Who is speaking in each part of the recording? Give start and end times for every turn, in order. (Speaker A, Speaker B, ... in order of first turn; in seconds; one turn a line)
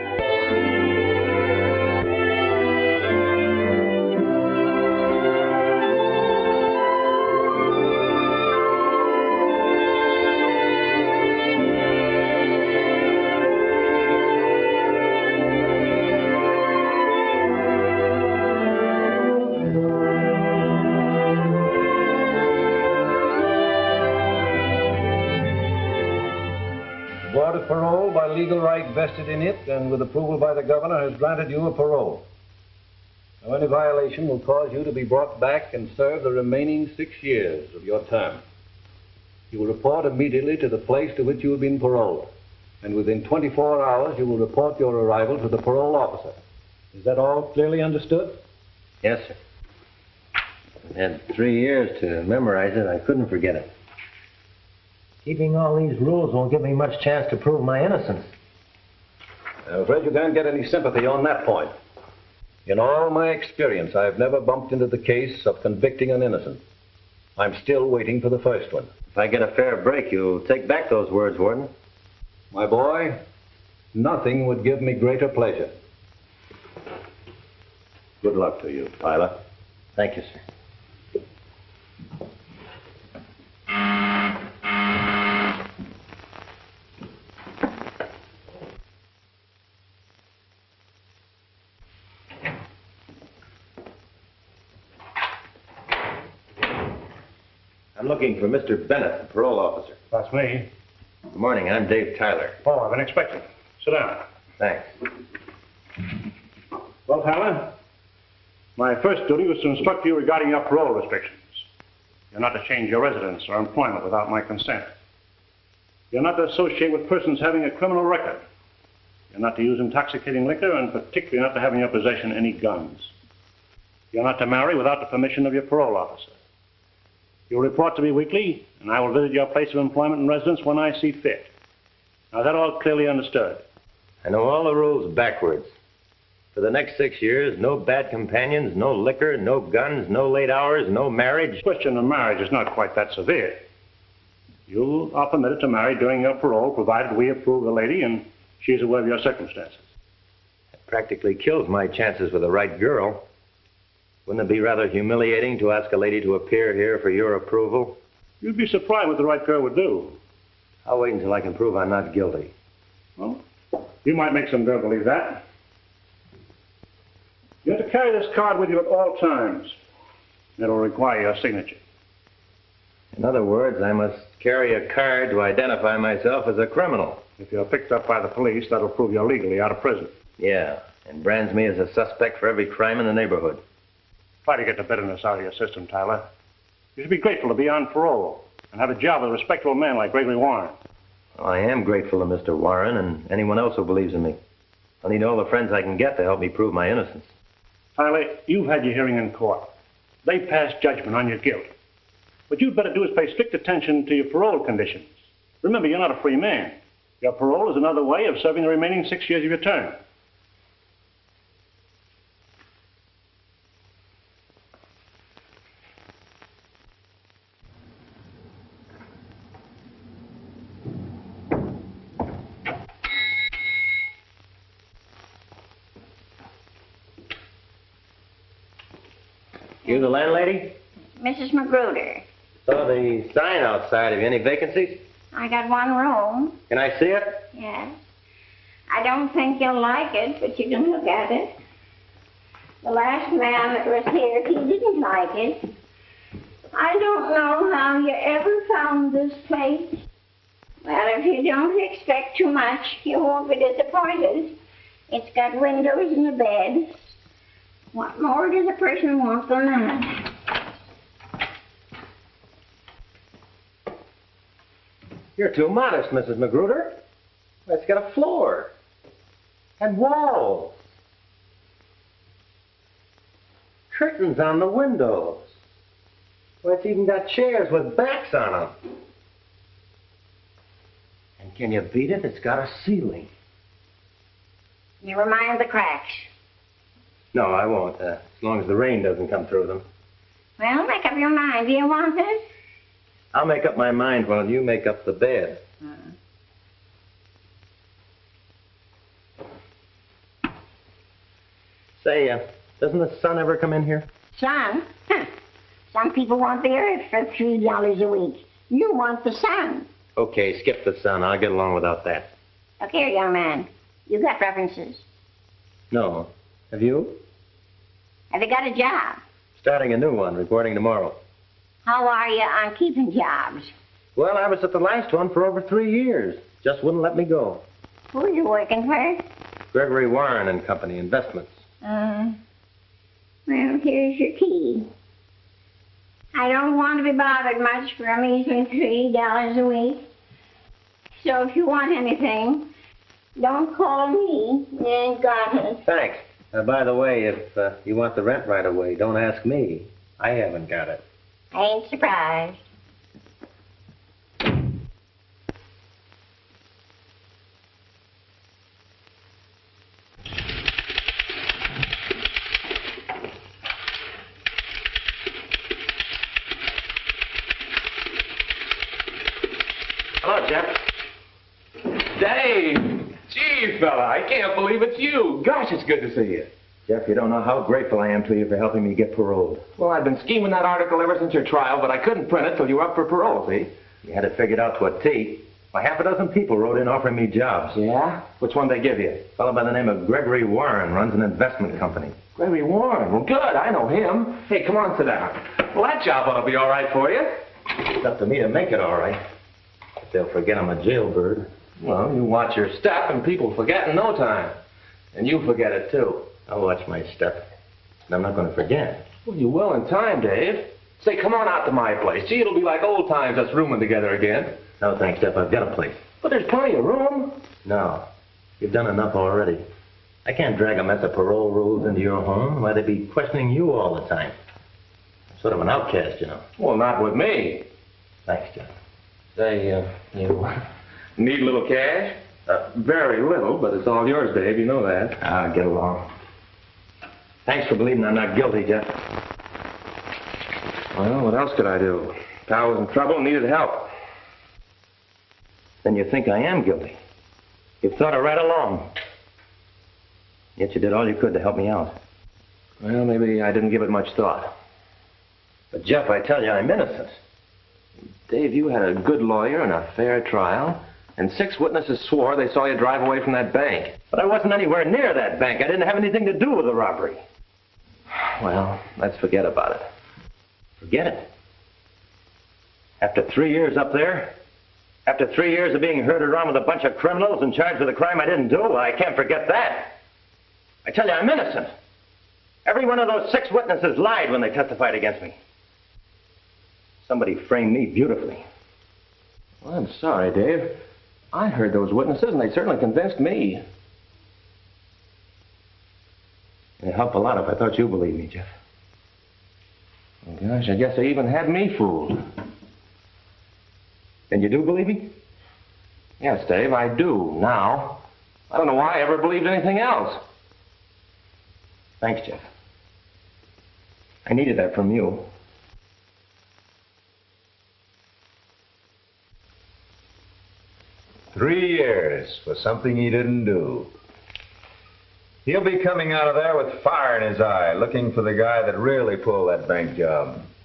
Speaker A: 27.3-32.2
Speaker A: 33.4-38.4
Speaker A: 39.5-42.3
Speaker A: 42.8-46.4
Speaker A: 46.9-48.4
Speaker B: 49.0-49.4
Speaker B: 50.8-53.7
Speaker B: 55.2-58.3
Speaker A: 59.7-61.7
Speaker A: 62.7-66.6
Speaker A: 67.4-68.9
Speaker B: 69.1-71.7
Speaker A: 72.5-73.1
Speaker A: 74.0-75.7
Speaker A: 78.2-78.9
Speaker B: 79.0-79.3
Speaker B: 80.0-80.4
Speaker B: 98.0-100.0
Speaker C: 100.1-100.7
Speaker B: 101.3-102.6
Speaker C: 102.6-104.2
Speaker B: 104.6-104.9
Speaker C: 107.1-107.8
Speaker C: 108.8-111.6
Speaker C: 112.3-114.9
Speaker C: 116.1-118.5
Speaker C: 119.3-123.1
Speaker C: 124.1-126.3
Speaker C: 127.5-131.5
Speaker C: 132.3-133.6
Speaker B: 134.2-135.7
Speaker B: 136.5-141.6
Speaker C: 141.6-143.7
Speaker C: 144.7-149.8
Speaker B: 150.9-153.2
Speaker B: 154.2-158.0
Speaker C: 158.4-160.2
Speaker B: 160.8-162.5
Speaker C: 164.0-165.4
Speaker C: 167.6-169.8
Speaker C: 170.6-171.8
Speaker B: 173.1-177.2
Speaker C: 177.4-180.1
Speaker B: 180.4-183.6
Speaker C: 184.4-186.3
Speaker C: 186.9-190.8
Speaker B: 191.4-194.4
Speaker B: 195.0-197.3
Speaker C: 197.9-199.7
Speaker C: 200.2-201.7
Speaker C: 202.5-210.0
Speaker B: 229.9-230.8
Speaker D: 231.2-232.2
Speaker B: 232.7-235.0
Speaker D: 235.3-236.6
Speaker B: 236.7-237.4
Speaker D: 237.5-237.9
Speaker D: 238.9-241.6
Speaker D: 242.8-245.7
Speaker D: 246.7-250.0
Speaker D: 250.8-254.6
Speaker D: 255.1-257.1
Speaker D: 257.9-260.3
Speaker B: 265.4-267.0
Speaker B: 267.7-268.7
Speaker B: 269.8-270.8
Speaker B: 273.9-275.5
Speaker B: 276.6-278.8
Speaker B: 281.4-283.3
Speaker D: 285.0-286.3
Speaker B: 287.3-289.9
Speaker D: 290.6-292.4
Speaker B: 293.3-295.6
Speaker B: 302.0-304.1
Speaker D: 304.3-305.3
Speaker D: 305.9-309.9
Speaker B: 310.2-312.3
Speaker D: 312.8-315.0
Speaker B: 315.9-317.2
Speaker D: 318.3-319.2
Speaker B: 319.6-321.2
Speaker D: 321.9-323.7
Speaker B: 324.2-327.6
Speaker D: 328.1-329.2
Speaker B: 329.7-331.6
Speaker D: 331.8-332.4
Speaker D: 333.5-334.9
Speaker D: 336.3-340.0
Speaker D: 341.2-342.7
Speaker D: 343.4-345.8
Speaker B: 345.9-351.0
Speaker D: 351.5-352.6
Speaker B: 370.2-370.7
Speaker E: 372.1-376.5
Speaker B: 376.9-379.7
Speaker E: 379.8-383.7
Speaker B: 384.0-387.8
Speaker E: 387.7-389.3
Speaker B: 389.4-392.2
Speaker E: 392.4-397.4
Speaker B: 397.9-399.2
Speaker B: 400.0-401.5
Speaker E: 401.8-404.6
Speaker E: 405.1-406.3
Speaker B: 406.4-407.5
Speaker B: 408.1-409.1
Speaker E: 409.2-414.6
Speaker B: 414.8-416.0
Speaker E: 416.2-417.4
Speaker B: 417.6-418.1
Speaker B: 418.6-419.6
Speaker B: 420.2-424.4
Speaker B: 425.4-426.5
Speaker E: 426.6-427.7
Speaker B: 428.3-428.7
Speaker E: 429.4-430.6
Speaker E: 431.2-435.2
Speaker B: 435.2-436.1
Speaker B: 437.5-439.0
Speaker E: 440.9-443.9
Speaker B: 445.8-447.0
Speaker B: 447.8-448.9
Speaker B: 450.6-452.0
Speaker E: 452.8-454.5
Speaker B: 455.7-457.1
Speaker E: 458.3-464.0
Speaker B: 464.1-467.2
Speaker B: 468.4-469.8
Speaker B: 470.8-471.3
Speaker B: 473.0-474.4
Speaker B: 475.1-480.0
Speaker B: 480.9-481.7
Speaker B: 482.6-485.4
Speaker B: 487.0-488.4
Speaker E: 489.6-490.8
Speaker E: 491.3-493.6
Speaker B: 496.8-498.5
Speaker E: 500.2-502.3
Speaker B: 504.3-505.1
Speaker E: 506.2-510.2
Speaker B: 512.0-512.4
Speaker B: 514.2-515.3
Speaker F: 521.3-523.9
Speaker F: 525.5-530.5